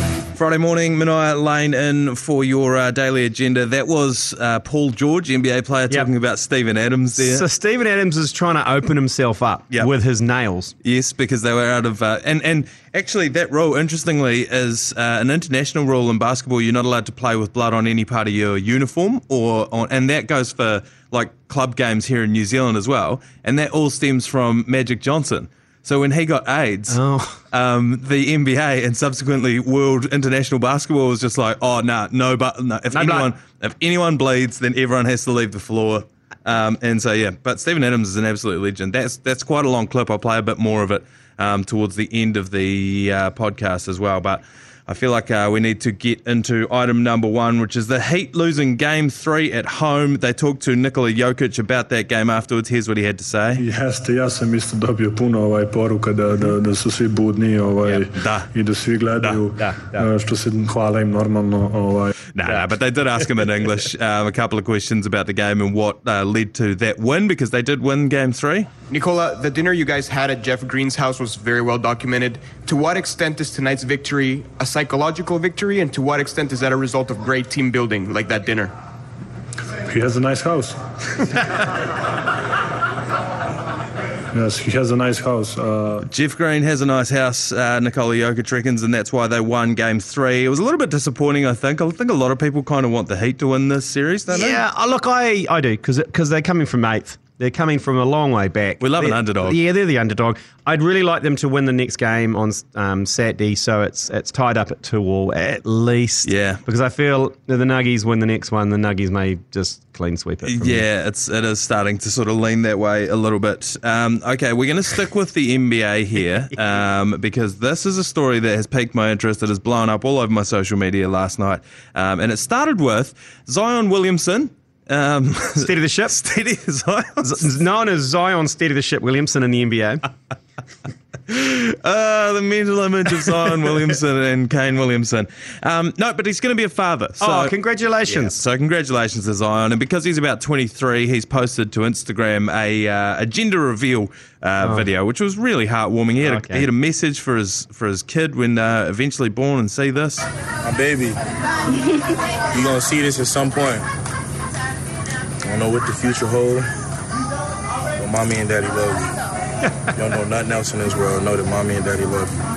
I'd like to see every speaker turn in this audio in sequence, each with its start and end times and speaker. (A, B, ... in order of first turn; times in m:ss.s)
0:00.4-0:07.4 A
0:07.2-0:10.7 B
0:10.8-0:27.0 A
0:26.9-0:27.4 B
0:27.5-0:53.6 A
0:32.9-0:33.3 B
0:53.6-1:02.1 C
0:58.1-0:58.5 A
0:59.6-1:00.1 B
1:02.3-1:08.7 A
1:08.9-1:18.7 D
1:19.9-1:21.7 C
1:24.3-1:26.0 C
1:26.1-1:34.6 A
1:34.3-1:50.8 B
1:38.8-1:39.6 A
1:46.2-1:46.6 A
1:50.4-2:07.5 A
2:05.6-2:06.2 B
2:07.2-2:10.0 B
2:11.3-2:17.6 A
2:17.2-2:18.4 B
2:18.1-2:30.3 A
2:24.6-2:24.9 B
2:26.2-2:26.7 B
2:30.6-2:31.2 E
2:32.5-2:33.8 E
2:35.4-2:36.7 E
2:38.0-2:39.2 E
2:40.0-2:42.4 E